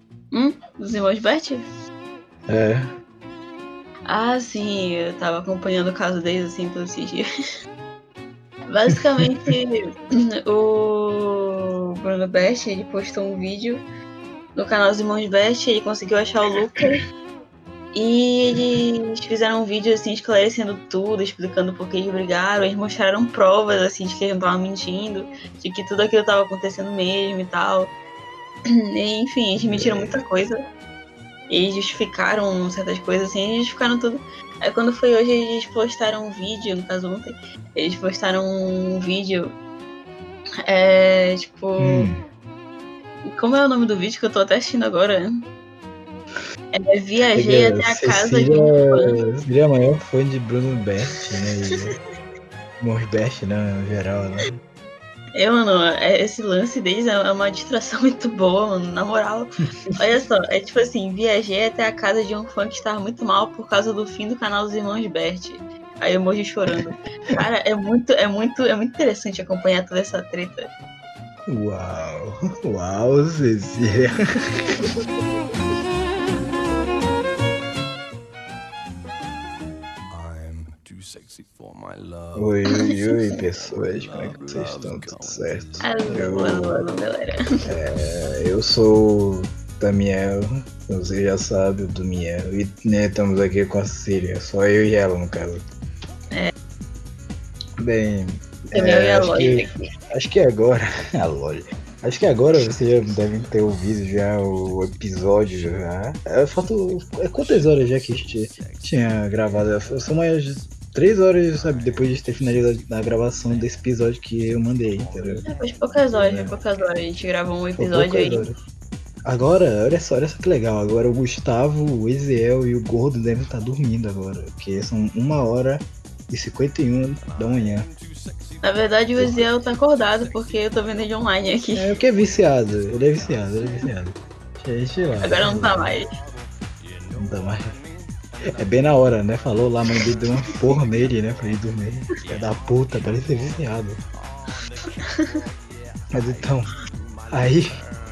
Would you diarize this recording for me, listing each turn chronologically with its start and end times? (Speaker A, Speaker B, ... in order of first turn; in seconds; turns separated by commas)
Speaker A: 0.3-1.6, Speaker B: 2.5-2.9, Speaker A: 4.1-7.2, Speaker A: 8.7-9.8, Speaker B: 9.2-9.5, Speaker A: 10.4-13.8, Speaker A: 14.5-17.0, Speaker A: 17.9-27.9, Speaker A: 28.9-30.6, Speaker B: 29.6-30.2, Speaker A: 31.5-39.5, Speaker A: 40.7-42.1, Speaker B: 41.8-42.2, Speaker A: 43.2-45.3, Speaker A: 46.7-49.2, Speaker B: 47.3-52.0, Speaker B: 52.8-54.5, Speaker A: 55.3-70.7, Speaker B: 66.8-67.4, Speaker B: 71.5-74.2, Speaker B: 82.3-86.8, Speaker A: 82.7-82.9, Speaker A: 85.8-87.4, Speaker B: 87.7-95.6, Speaker B: 97.8-115.4, Speaker A: 98.7-99.9, Speaker A: 115.4-118.5, Speaker B: 116.1-116.5, Speaker B: 117.8-118.5, Speaker B: 119.2-127.9, Speaker A: 128.6-131.9, Speaker B: 129.2-129.5, Speaker B: 131.8-136.0, Speaker A: 135.2-136.1, Speaker B: 137.1-137.7, Speaker B: 138.6-144.0, Speaker B: 146.1-146.7, Speaker B: 147.3-147.7